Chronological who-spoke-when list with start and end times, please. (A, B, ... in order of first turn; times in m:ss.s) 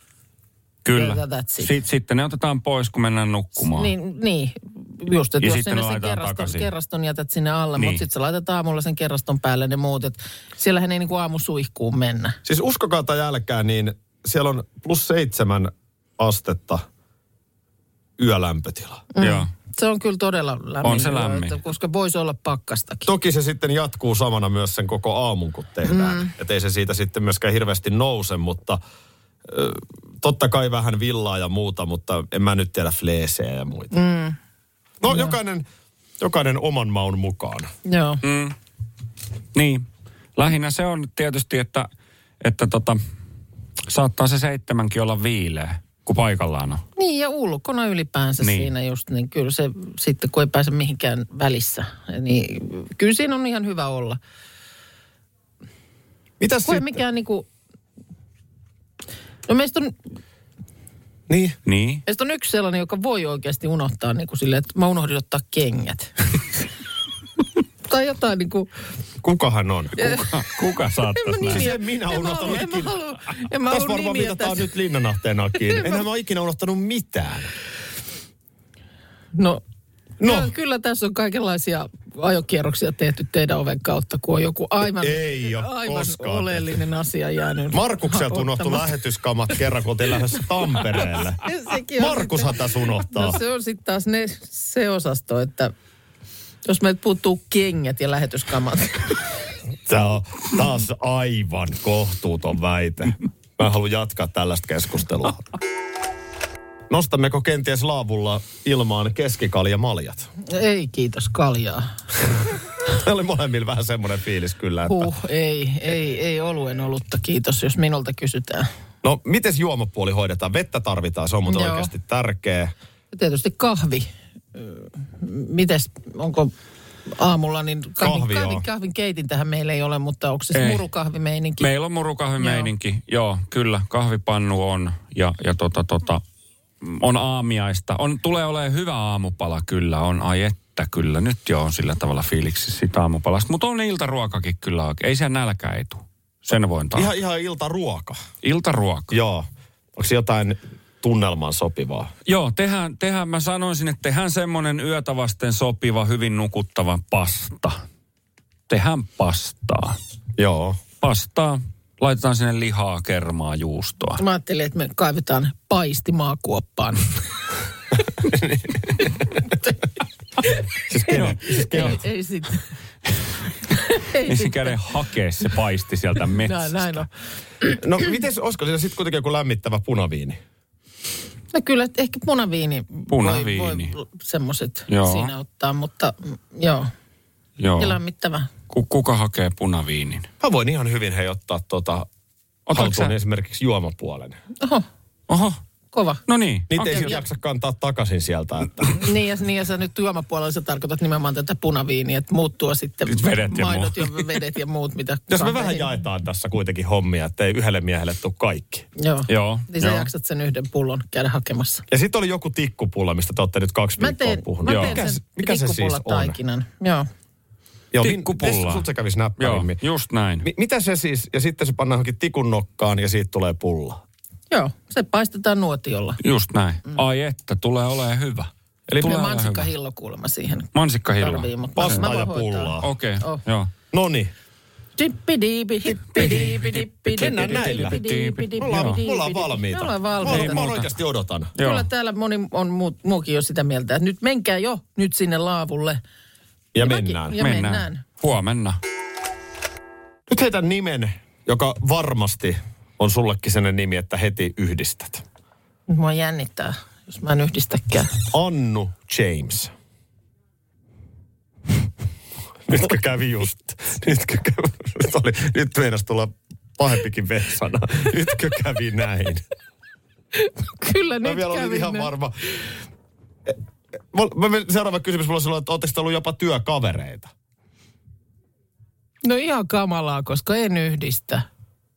0:00.8-0:03.9 A
0:00.9-0:01.7 B
0:03.6-0:12.4 B
0:05.4-0:06.7 A
0:07.8-0:08.0 A
0:12.4-0:16.8 C
0:18.2-0:19.0 C
0:19.1-0:23.1 B
0:19.2-0:19.5 A
0:20.8-0:21.6 A
0:23.0-0:28.8 C
0:25.9-0:26.3 B
0:29.5-0:33.9 C
0:33.9-0:34.4 B
0:35.0-0:35.6 C
0:35.1-0:35.3 B
0:36.2-0:37.7 C
0:37.8-0:38.2 B
0:38.2-0:38.5 A
0:39.5-0:41.9 A
0:42.4-0:43.0 A
0:43.9-0:46.8 A
0:47.0-0:54.2 B
0:48.4-0:48.7 A
0:56.4-0:57.0 C
0:56.6-0:57.4 B
0:59.5-0:59.9 B
1:01.3-1:01.6 C
1:01.6-1:02.0 A
1:02.0-1:06.3 B
1:07.9-1:08.7 B
1:09.2-1:10.1 C
1:10.0-1:10.4 B
1:10.0-1:11.7 A
1:11.2-1:14.7 B
1:11.4-1:13.0 C
1:13.6-1:17.5 C
1:19.3-1:19.6 B
1:20.2-1:20.5 C
1:20.2-1:28.9 B
1:25.0-1:26.8 C
1:27.7-1:31.4 C
1:31.4-1:35.7 B
1:32.0-1:33.4 C
1:36.6-1:39.2 B
1:39.8-1:45.5 C
1:46.9-1:50.3 C
1:50.4-1:51.9 B
1:52.8-1:55.1 C
1:54.8-1:58.7 B
1:59.0-2:02.7 C
2:01.4-2:01.9 B
2:03.1-2:06.5 B
2:07.1-2:11.7 B
2:08.0-2:08.6 C
2:10.5-2:10.8 A
2:11.6-2:16.2 A
2:12.4-2:12.7 B
2:16.8-2:27.1 A
2:26.9-2:28.2 C
2:28.4-2:29.2 A
2:29.1-2:32.1 C
2:32.3-2:37.8 A
2:38.7-2:40.0 A
2:40.4-2:40.8 C
2:41.0-2:44.2 A
2:44.2-2:47.2 B
2:48.3-2:48.8 C
2:50.9-2:52.0 C
2:51.1-2:52.6 B
2:51.1-2:52.0 A
2:53.7-2:54.8 B
2:54.2-2:57.1 A
2:56.4-2:57.0 B
2:57.6-3:00.4 C
3:01.5-3:06.9 B
3:03.1-3:03.9 A
3:04.9-3:05.3 A
3:07.6-3:08.0 A
3:07.8-3:08.5 B
3:08.7-3:10.3 A
3:10.4-3:12.1 C
3:12.7-3:13.1 A
3:12.7-3:14.4 C
3:14.6-3:14.8 B
3:15.3-3:15.6 A
3:15.9-3:16.2 B
3:16.3-3:17.2 A
3:16.7-3:19.1 C
3:19.0-3:25.9 B
3:23.1-3:24.3 A
3:25.3-3:28.9 C
3:29.0-3:31.8 B
3:29.3-3:30.1 A
3:31.9-3:36.4 C
3:34.0-3:37.0 B
3:34.7-3:35.0 A
3:37.9-3:39.8 C
3:38.0-3:38.9 A
3:39.4-3:40.5 A
3:40.4-3:44.0 C
3:44.5-3:46.2 B
3:46.2-3:49.7 A
3:48.9-3:49.1 C
3:49.0-3:53.4 B
3:50.7-3:52.0 A
3:51.8-3:52.9 C
3:52.8-3:53.7 A
3:53.9-3:54.3 C
3:55.0-4:00.6 B
3:56.1-3:58.0 C
3:56.2-3:59.0 A
3:58.6-4:01.5 C
4:00.2-4:00.9 A
4:01.6-4:01.9 A
4:01.6-4:06.0 B
4:06.7-4:07.4 C
4:06.8-4:08.0 B
4:07.3-4:08.8 A
4:10.3-4:15.2 C
4:15.9-4:18.2 B
4:18.3-4:19.7 C
4:22.7-4:29.4 C
4:30.3-4:32.1 B
4:31.2-4:32.4 C
4:34.1-4:37.3 C
4:39.2-4:41.4 B